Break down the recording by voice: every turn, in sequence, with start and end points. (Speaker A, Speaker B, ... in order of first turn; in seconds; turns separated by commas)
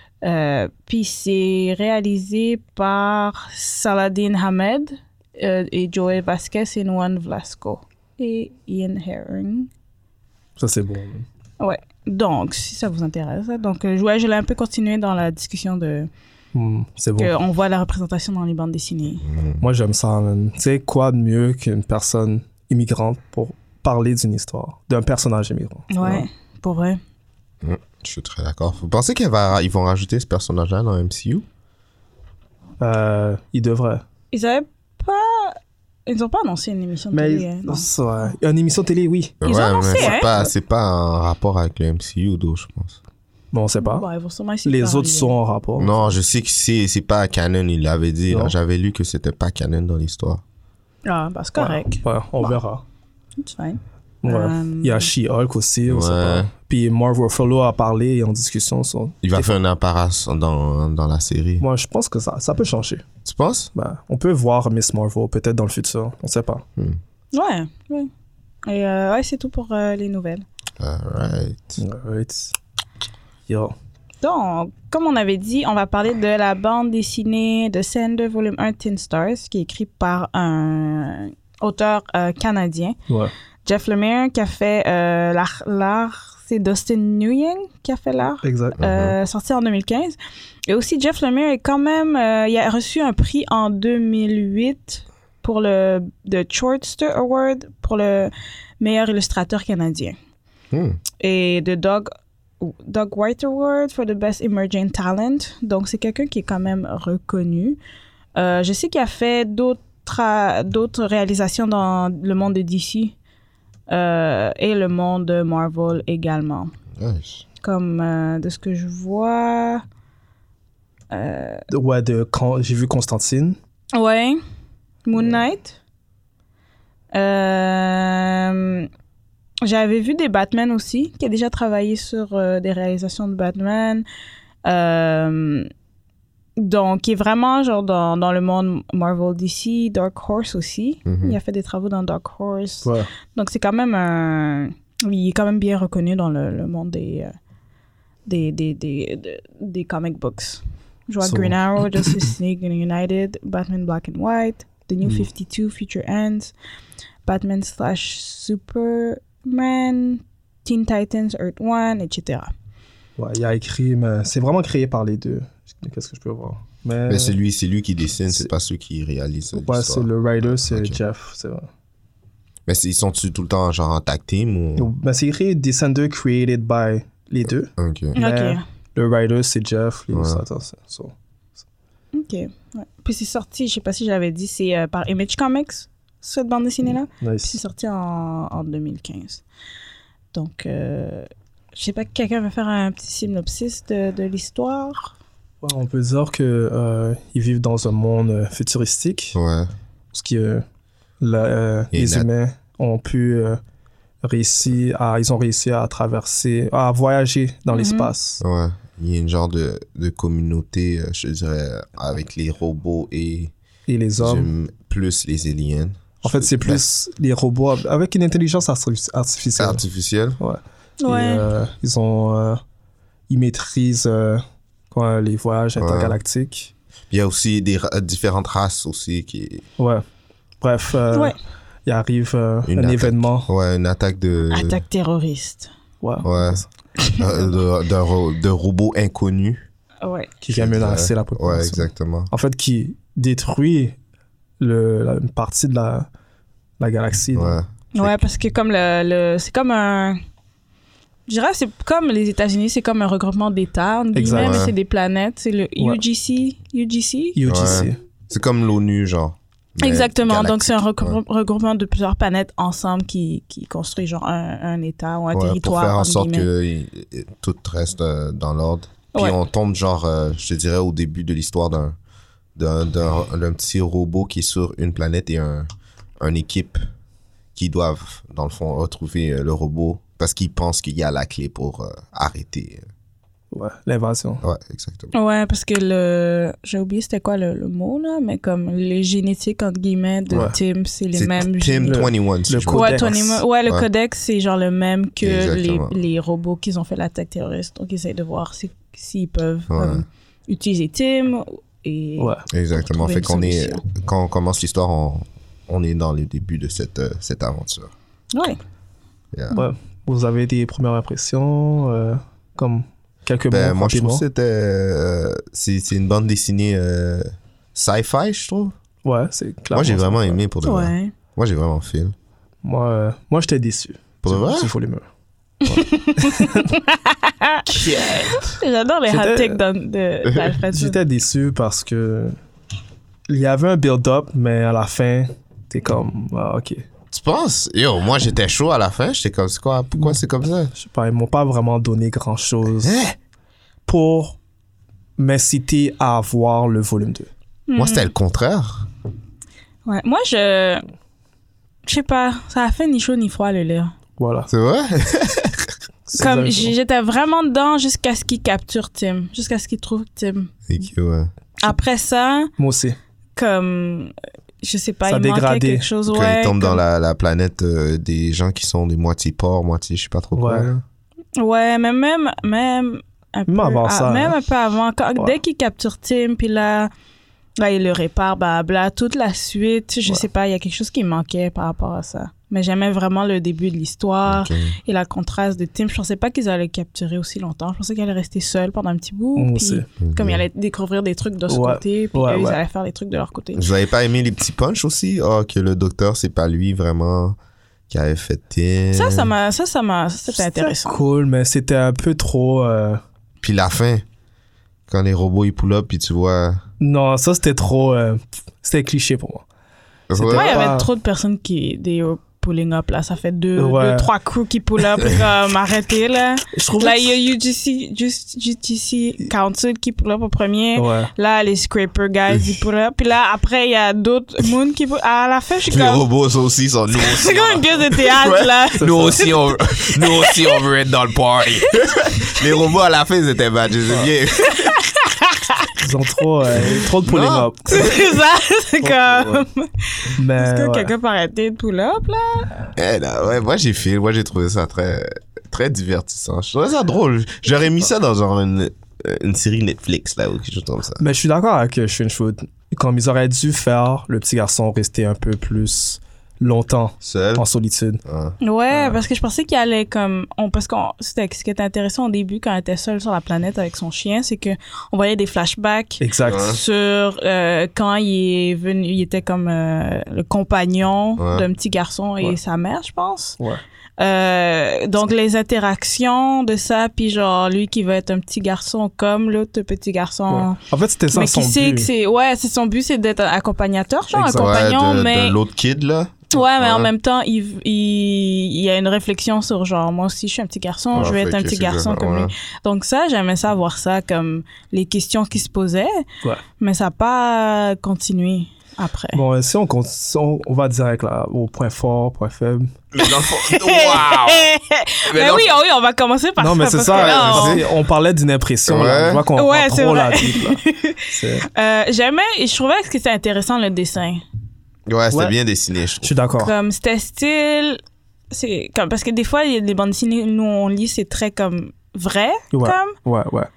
Speaker A: 0.2-9.7, Speaker B: 10.6-11.3, Speaker A: 11.6-16.1, Speaker B: 16.5-17.3, Speaker A: 17.2-19.2, Speaker C: 19.2-19.6, Speaker B: 19.6-26.2, Speaker A: 25.9-27.0, Speaker C: 27.6-31.4, Speaker B: 32.8-34.0, Speaker A: 34.3-37.9, Speaker B: 37.1-39.4, Speaker C: 39.4-43.0, Speaker A: 39.4-40.3, Speaker B: 40.0-40.5, Speaker B: 43.5-44.1, Speaker A: 43.8-45.4, Speaker B: 44.6-46.0, Speaker C: 45.8-50.4, Speaker B: 48.3-48.5, Speaker A: 51.0-52.6, Speaker B: 51.5-52.8, Speaker A: 53.4-55.1, Speaker B: 54.2-59.5, Speaker C: 55.9-56.5, Speaker C: 59.2-61.6, Speaker B: 61.6-63.0, Speaker C: 63.2-63.7, Speaker B: 63.7-66.6, Speaker A: 67.3-68.1, Speaker A: 68.7-70.4, Speaker C: 70.8-71.8, Speaker B: 71.8-72.5, Speaker B: 73.5-73.7, Speaker A: 74.2-83.0, Speaker A: 83.7-90.2, Speaker B: 88.4-88.8, Speaker C: 88.8-89.1, Speaker A: 90.7-100.2, Speaker C: 100.7-101.0, Speaker A: 101.2-102.1, Speaker A: 102.6-107.8, Speaker A: 108.3-113.1, Speaker A: 113.9-116.7, Speaker C: 117.0-117.4, Speaker A: 117.6-119.8, Speaker A: 121.1-121.6, Speaker B: 121.7-123.6, Speaker A: 123.9-124.4, Speaker A: 125.0-125.8, Speaker A: 127.1-128.9, Speaker A: 129.6-134.0, Speaker A: 134.6-135.7, Speaker A: 136.6-147.3, Speaker C: 141.1-141.4, Speaker B: 142.8-143.1, Speaker A: 148.2-156.5, Speaker B: 151.2-152.3, Speaker A: 157.2-162.5, Speaker B: 163.2-167.3, Speaker C: 167.1-171.0, Speaker B: 169.5-171.7, Speaker C: 172.7-174.9, Speaker B: 174.8-181.1, Speaker C: 177.8-178.2, Speaker A: 178.2-178.6, Speaker C: 180.1-180.4, Speaker A: 182.1-189.4, Speaker B: 187.2-187.6, Speaker A: 190.3-195.1, Speaker B: 195.6-199.4, Speaker C: 199.3-199.7, Speaker B: 200.1-200.6, Speaker B: 201.2-203.6, Speaker C: 201.9-202.3, Speaker B: 204.2-208.4, Speaker A: 207.7-208.1, Speaker C: 208.4-213.5, Speaker B: 213.9-214.5, Speaker C: 214.2-216.8, Speaker B: 216.2-219.8, Speaker C: 219.6-220.4, Speaker B: 220.4-222.6, Speaker A: 221.0-221.4, Speaker B: 223.3-226.7, Speaker C: 225.8-226.2, Speaker C: 227.1-229.6, Speaker B: 229.8-230.0, Speaker B: 230.6-233.5, Speaker C: 232.7-234.8, Speaker A: 234.5-235.7, Speaker B: 236.0-236.7, Speaker C: 236.2-236.6, Speaker C: 237.2-239.6, Speaker A: 240.0-240.3, Speaker B: 240.4-243.9, Speaker C: 240.5-242.3, Speaker B: 244.6-246.1, Speaker B: 246.8-247.6, Speaker C: 247.3-248.2, Speaker A: 247.9-250.2, Speaker A: 251.3-257.9, Speaker B: 254.1-254.6, Speaker C: 254.3-254.7, Speaker B: 257.4-258.0, Speaker C: 257.5-261.2, Speaker A: 259.8-266.5, Speaker C: 265.3-271.9, Speaker C: 272.6-275.7, Speaker C: 276.2-276.8, Speaker C: 277.5-282.8, Speaker B: 283.5-284.4, Speaker C: 284.4-285.1, Speaker A: 285.1-292.1, Speaker C: 291.1-293.9, Speaker B: 291.8-293.4, Speaker A: 292.7-303.8, Speaker C: 295.2-295.9, Speaker C: 299.7-300.0, Speaker B: 302.2-302.4, Speaker C: 302.5-307.9, Speaker A: 308.3-308.6, Speaker B: 309.5-314.2, Speaker C: 313.5-318.7, Speaker B: 319.0-320.4, Speaker C: 319.7-322.1, Speaker A: 320.6-321.1, Speaker B: 322.6-325.0, Speaker C: 324.2-324.7, Speaker A: 325.7-331.0, Speaker B: 325.7-326.7, Speaker C: 327.7-328.4, Speaker B: 329.1-329.6, Speaker B: 330.7-332.4, Speaker B: 333.3-336.8, Speaker C: 337.1-340.7, Speaker B: 340.7-342.9, Speaker C: 342.8-343.1, Speaker B: 343.9-344.4, Speaker B: 345.2-347.3, Speaker A: 347.7-348.1, Speaker C: 347.8-348.9, Speaker A: 349.9-350.8, Speaker A: 351.9-353.9, Speaker B: 354.2-354.5, Speaker C: 354.5-355.7, Speaker B: 356.1-356.7, Speaker A: 356.2-360.5, Speaker C: 360.7-361.3, Speaker A: 361.6-362.5, Speaker B: 362.6-363.0, Speaker A: 363.4-366.8, Speaker B: 365.1-365.9, Speaker C: 366.1-370.7, Speaker B: 370.3-370.8, Speaker A: 371.4-376.9, Speaker B: 373.5-374.4, Speaker A: 377.6-393.6, Speaker C: 384.2-384.8, Speaker B: 389.4-389.9, Speaker C: 390.0-390.4, Speaker B: 391.5-392.6, Speaker C: 393.5-397.4, Speaker C: 397.9-399.3, Speaker A: 398.9-401.0, Speaker B: 400.3-403.0, Speaker C: 403.4-404.0, Speaker C: 404.9-406.6, Speaker B: 406.8-409.4, Speaker C: 410.1-410.6, Speaker B: 410.2-410.9, Speaker A: 410.3-426.0, Speaker B: 413.6-414.1, Speaker B: 416.5-417.1, Speaker B: 420.8-421.1, Speaker C: 425.7-434.7, Speaker A: 426.9-430.6, Speaker B: 428.8-429.2, Speaker A: 434.4-435.7, Speaker B: 435.8-437.8, Speaker C: 436.7-438.0, Speaker A: 437.7-442.5, Speaker C: 438.8-439.4, Speaker B: 440.2-440.9, Speaker C: 442.8-451.0, Speaker B: 451.0-458.0, Speaker C: 457.0-457.4, Speaker C: 458.0-458.4, Speaker A: 458.4-473.4, Speaker B: 458.7-459.0, Speaker B: 466.0-466.5, Speaker C: 466.3-466.6, Speaker C: 471.2-471.5, Speaker A: 474.0-480.6, Speaker B: 480.3-481.9, Speaker A: 481.1-485.4, Speaker B: 484.1-484.5, Speaker C: 484.3-486.9, Speaker A: 486.3-496.0, Speaker C: 490.9-492.3, Speaker A: 496.6-499.2, Speaker B: 499.1-502.7, Speaker C: 502.9-504.5, Speaker A: 503.0-507.7, Speaker C: 505.1-505.5, Speaker B: 506.4-511.4, Speaker C: 506.9-507.6, Speaker C: 508.7-509.2, Speaker A: 509.3-514.2, Speaker C: 514.9-516.1, Speaker B: 516.0-516.5, Speaker A: 516.4-522.9, Speaker B: 522.5-523.5